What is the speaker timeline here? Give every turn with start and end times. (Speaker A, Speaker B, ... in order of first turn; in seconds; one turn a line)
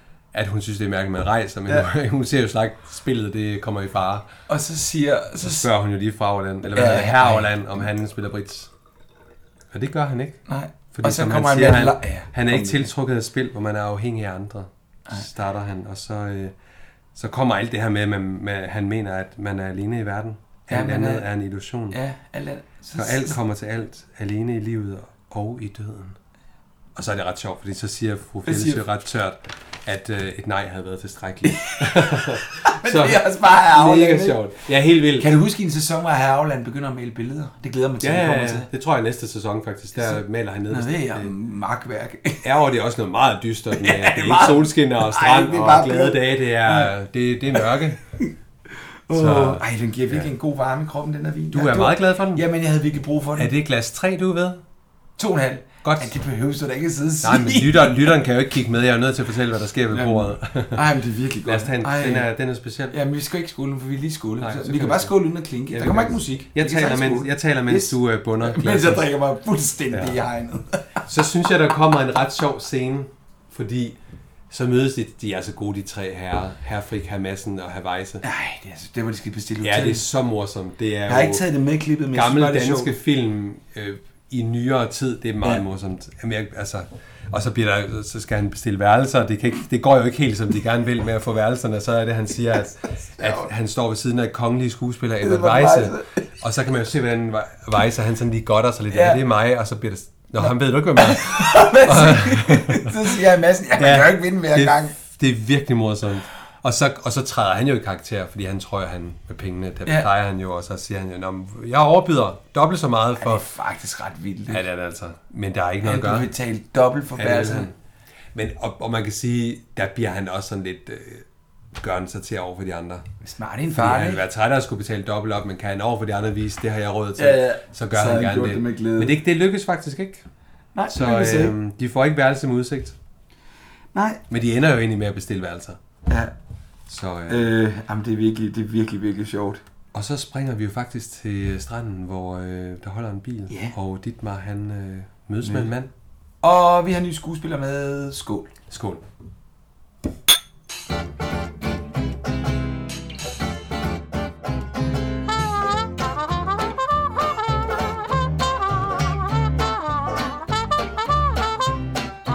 Speaker A: 0.3-4.3
Speaker B: 4.5-5.7
Speaker A: 5.4-8.7
Speaker B: 6.8-7.5
Speaker A: 9.7-16.5
Speaker B: 10.5-12.8
Speaker A: 17.1-22.0
Speaker B: 20.7-21.3
Speaker B: 21.9-23.4
Speaker A: 23.0-26.2
Speaker A: 27.0-35.3
Speaker B: 28.5-28.8
Speaker B: 31.5-34.4
Speaker B: 35.2-38.7
Speaker A: 38.0-41.3
Speaker B: 40.0-42.4
Speaker A: 42.4-48.0
Speaker B: 43.8-46.9
Speaker B: 49.1-53.5
Speaker A: 49.1-50.3
Speaker A: 51.5-52.4
Speaker A: 53.4-54.6
Speaker B: 55.2-58.1
Speaker A: 55.8-56.1
Speaker A: 57.2-60.8
Speaker B: 59.9-62.3
Speaker A: 61.5-63.0
Speaker B: 62.9-71.0
Speaker A: 64.4-65.1
Speaker A: 65.7-69.1
Speaker A: 69.9-70.2
Speaker A: 71.1-74.0
Speaker A: 74.5-78.2
Speaker B: 78.2-80.0
Speaker A: 79.6-81.4
Speaker B: 81.1-82.9
Speaker A: 82.1-103.1
Speaker B: 93.2-93.5
Speaker B: 95.2-96.2
Speaker B: 98.9-99.2
Speaker B: 100.4-104.9
Speaker A: 103.8-113.4
Speaker B: 113.2-114.6
Speaker A: 114.5-116.3
Speaker B: 115.8-117.7
Speaker A: 117.2-117.7
Speaker A: 118.3-121.2
Speaker A: 121.8-123.0
Speaker B: 123.2-124.2
Speaker A: 123.7-130.2
Speaker B: 127.2-129.2
Speaker B: 130.8-131.6
Speaker A: 130.9-132.9
Speaker B: 133.9-134.2
Speaker A: 134.3-135.8
Speaker B: 136.1-136.3
Speaker A: 136.9-137.5
Speaker B: 137.3-139.6
Speaker A: 139.9-145.9
Speaker B: 143.5-143.7
Speaker B: 145.4-145.7
Speaker B: 146.4-148.5
Speaker A: 148.7-149.0